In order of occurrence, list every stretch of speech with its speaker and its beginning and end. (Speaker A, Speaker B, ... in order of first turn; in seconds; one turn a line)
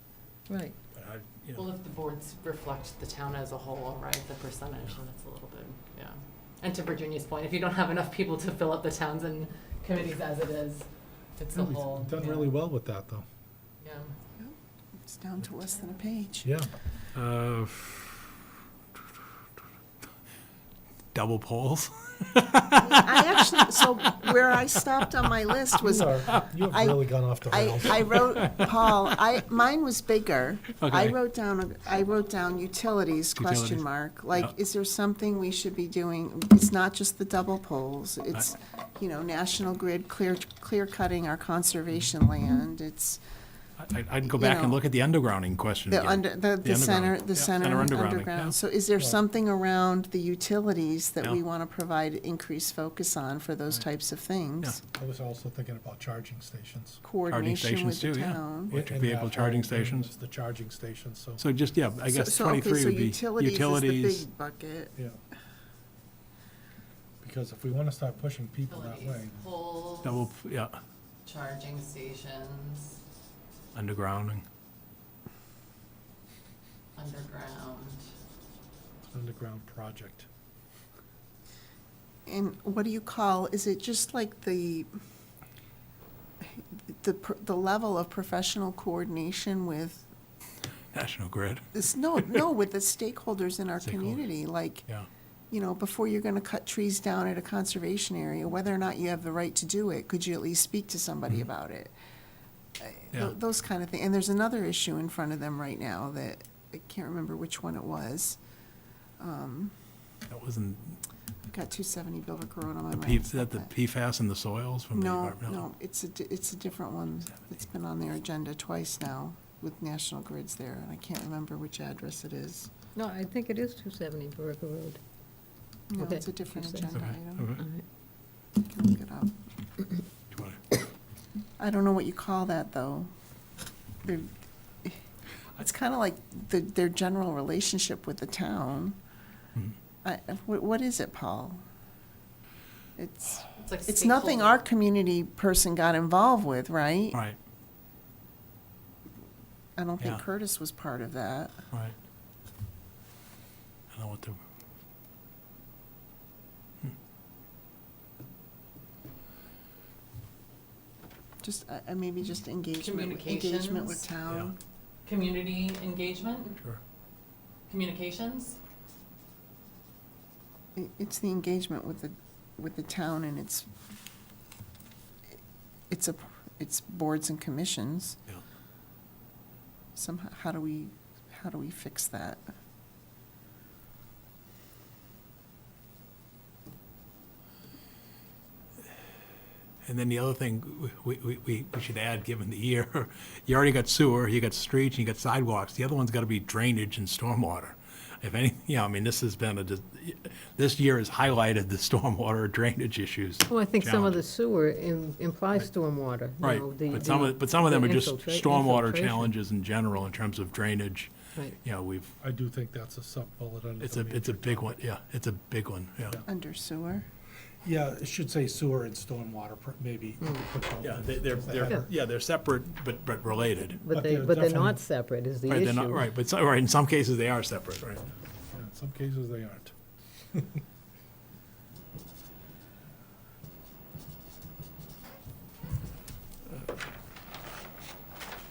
Speaker A: 0.9-1.7
Speaker B: 1.6-12.6
Speaker C: 11.5-13.3
Speaker B: 13.8-14.1
Speaker D: 14.4-16.5
Speaker C: 16.4-16.7
Speaker A: 17.1-18.3
Speaker A: 21.1-24.6
Speaker D: 22.8-43.2
Speaker C: 25.8-28.2
Speaker A: 28.1-28.8
Speaker A: 30.7-31.2
Speaker A: 33.3-34.5
Speaker A: 43.8-48.6
Speaker D: 44.2-44.8
Speaker D: 45.9-54.8
Speaker C: 54.9-57.0
Speaker D: 57.0-58.8
Speaker A: 57.3-60.1
Speaker C: 58.7-61.4
Speaker A: 61.4-64.2
Speaker D: 62.0-64.9
Speaker C: 67.2-69.4
Speaker B: 68.7-70.2
Speaker A: 70.0-70.8
Speaker B: 71.2-73.0
Speaker A: 73.7-74.4
Speaker B: 77.0-78.0
Speaker C: 79.1-80.3
Speaker D: 82.2-84.9
Speaker D: 86.4-90.1
Speaker A: 90.9-92.4
Speaker D: 91.7-94.9
Speaker A: 93.8-94.3
Speaker D: 95.5-101.9
Speaker D: 102.8-108.4
Speaker D: 109.2-109.7
Speaker A: 110.3-111.0
Speaker D: 111.5-113.7
Speaker A: 113.0-115.7
Speaker D: 114.9-122.7
Speaker E: 123.0-125.0
Speaker D: 125.9-127.5
Speaker E: 126.0-126.9
Speaker A: 126.9-127.6
Speaker E: 127.6-127.8
Speaker D: 128.6-129.3
Speaker A: 130.3-130.6
Speaker D: 131.6-133.1
Speaker D: 134.0-134.3
Speaker D: 135.6-139.0
Speaker D: 140.0-141.6
Speaker D: 142.9-147.2
Speaker B: 143.6-144.6
Speaker D: 149.8-151.6
Speaker A: 153.9-154.4
Speaker D: 161.4-164.6
Speaker B: 162.8-164.0
Speaker A: 164.3-164.5
Speaker B: 165.1-166.6
Speaker B: 167.7-168.6
Speaker D: 170.8-173.7
Speaker D: 175.9-178.2
Speaker D: 179.9-182.4
Speaker A: 189.8-204.2
Speaker E: 203.4-209.3
Speaker A: 206.4-212.2
Speaker C: 212.2-214.8
Speaker A: 213.8-216.2
Speaker D: 216.3-217.1
Speaker C: 217.6-221.9
Speaker E: 220.2-220.5
Speaker A: 220.8-223.8
Speaker E: 223.8-226.1
Speaker C: 223.9-224.8
Speaker A: 225.5-228.0
Speaker C: 228.5-229.7
Speaker C: 230.3-230.6
Speaker A: 236.4-236.8